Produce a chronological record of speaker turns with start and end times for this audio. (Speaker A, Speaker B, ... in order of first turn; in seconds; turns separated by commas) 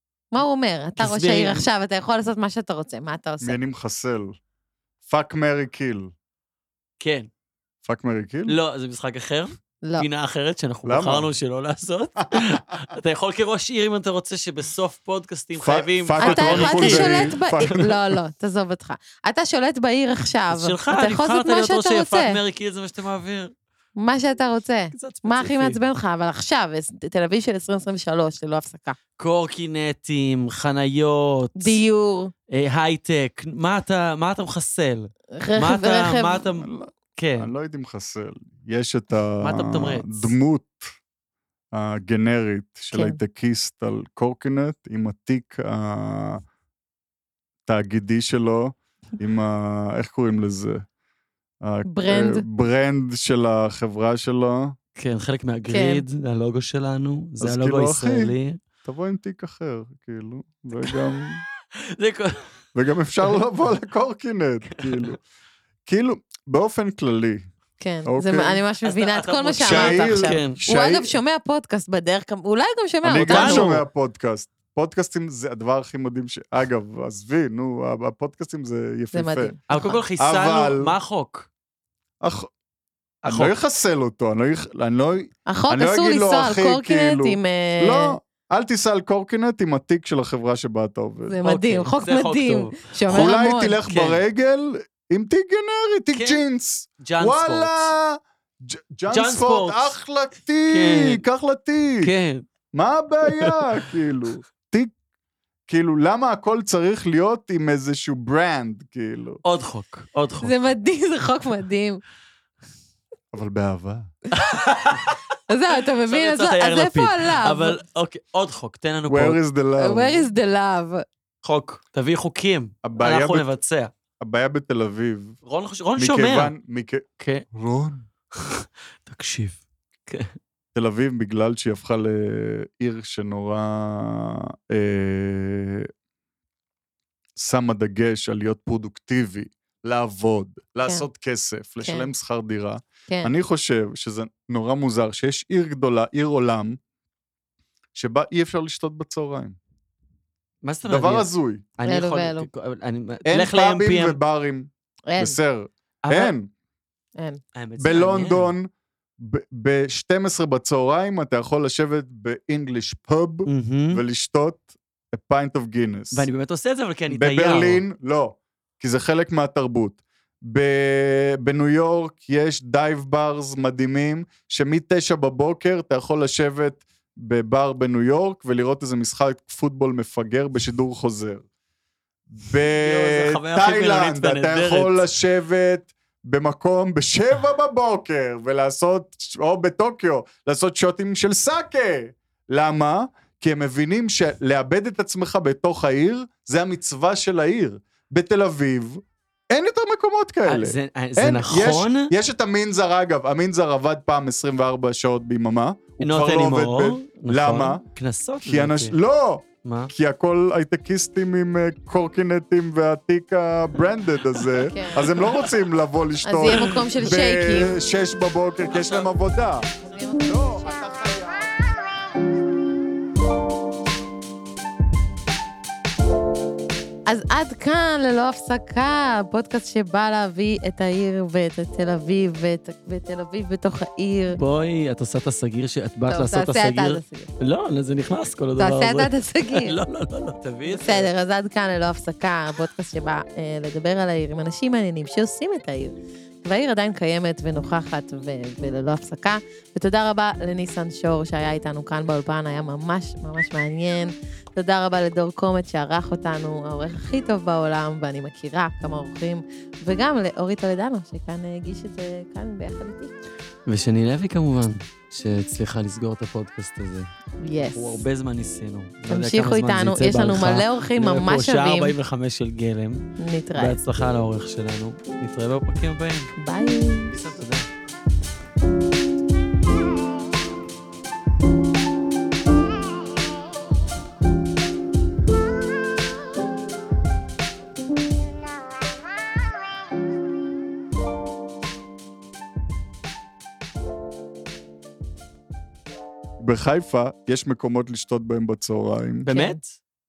Speaker A: 0.3-3.6, Speaker B: 1.0-1.6, Speaker C: 3.4-4.4, Speaker C: 5.1-6.1, Speaker B: 7.0-7.3, Speaker C: 7.8-8.6, Speaker B: 8.5-17.9, Speaker C: 10.8-11.3, Speaker C: 15.6-17.9, Speaker A: 16.2-22.4, Speaker B: 20.5-23.5, Speaker A: 24.0-29.0, Speaker B: 24.9-25.8, Speaker B: 29.2-31.8, Speaker A: 31.6-32.3, Speaker B: 32.5-37.5, Speaker A: 35.3-36.4, Speaker C: 36.5-40.9, Speaker B: 39.4-40.3, Speaker C: 41.7-46.4, Speaker A: 42.9-43.2, Speaker C: 47.7-50.9, Speaker C: 51.6-54.8, Speaker A: 51.9-52.4, Speaker B: 55.0-58.6, Speaker A: 55.7-56.0, Speaker C: 57.4-58.3, Speaker C: 58.9-61.4, Speaker B: 61.9-62.5, Speaker C: 62.8-65.2, Speaker B: 64.8-65.1, Speaker C: 65.9-67.5, Speaker A: 67.8-73.7, Speaker C: 68.0-68.6, Speaker B: 68.8-70.6, Speaker C: 69.6-71.2, Speaker C: 73.0-79.6, Speaker B: 73.3-73.8, Speaker A: 79.1-80.0, Speaker B: 79.7-81.5, Speaker C: 80.2-80.9, Speaker C: 82.2-82.5, Speaker B: 83.2-83.5, Speaker C: 83.3-91.4, Speaker A: 85.5-88.2, Speaker A: 91.3-93.8, Speaker B: 91.4-93.3, Speaker C: 93.1-102.1, Speaker B: 93.9-94.2, Speaker B: 96.1-96.4, Speaker B: 97.0-97.9, Speaker B: 99.1-99.9, Speaker B: 100.7-101.2, Speaker B: 102.0-102.5, Speaker C: 102.7-104.9, Speaker B: 103.2-103.9, Speaker C: 105.7-109.4, Speaker B: 109.5-110.5, Speaker A: 110.4-112.0, Speaker C: 113.3-114.1, Speaker B: 114.3-115.2, Speaker A: 115.5-117.8, Speaker B: 116.1-119.4, Speaker C: 119.1-120.3, Speaker A: 119.8-121.0, Speaker B: 121.4-123.9, Speaker C: 122.8-123.5, Speaker C: 124.2-125.4, Speaker B: 125.5-126.5, Speaker C: 126.0-128.1, Speaker B: 127.2-127.5, Speaker B: 128.3-130.3, Speaker C: 130.8-135.9, Speaker C: 137.4-146.8, Speaker A: 141.8-142.1, Speaker A: 143.1-143.3, Speaker C: 147.9-149.6, Speaker B: 150.6-154.2, Speaker C: 150.9-151.7, Speaker A: 151.9-152.5, Speaker C: 153.3-156.5, Speaker A: 155.1-155.4, Speaker B: 156.0-156.3, Speaker B: 157.6-158.5, Speaker C: 157.8-166.3, Speaker B: 163.5-164.0, Speaker B: 166.1-167.8, Speaker C: 167.1-181.5, Speaker C: 182.3-207.8, Speaker B: 182.7-185.1, Speaker B: 200.5-202.1, Speaker B: 206.0-208.9, Speaker C: 208.4-219.7, Speaker B: 209.6-209.9, Speaker A: 214.6-215.1, Speaker B: 215.2-215.5, Speaker A: 216.2-217.8, Speaker B: 218.7-219.1, Speaker A: 219.8-220.8, Speaker C: 220.2-221.7, Speaker A: 227.1-234.4, Speaker B: 234.3-241.1, Speaker A: 236.1-237.3, Speaker A: 238.6-239.8, Speaker A: 240.7-263.1, Speaker B: 263.7-267.1, Speaker A: 267.4-268.0, Speaker B: 267.6-273.1, Speaker A: 269.1-271.9, Speaker A: 273.2-273.8, Speaker B: 273.6-276.3, Speaker A: 276.4-277.1, Speaker B: 277.1-277.7, Speaker C: 296.4-299.3, Speaker B: 299.2-299.8, Speaker A: 299.3-299.6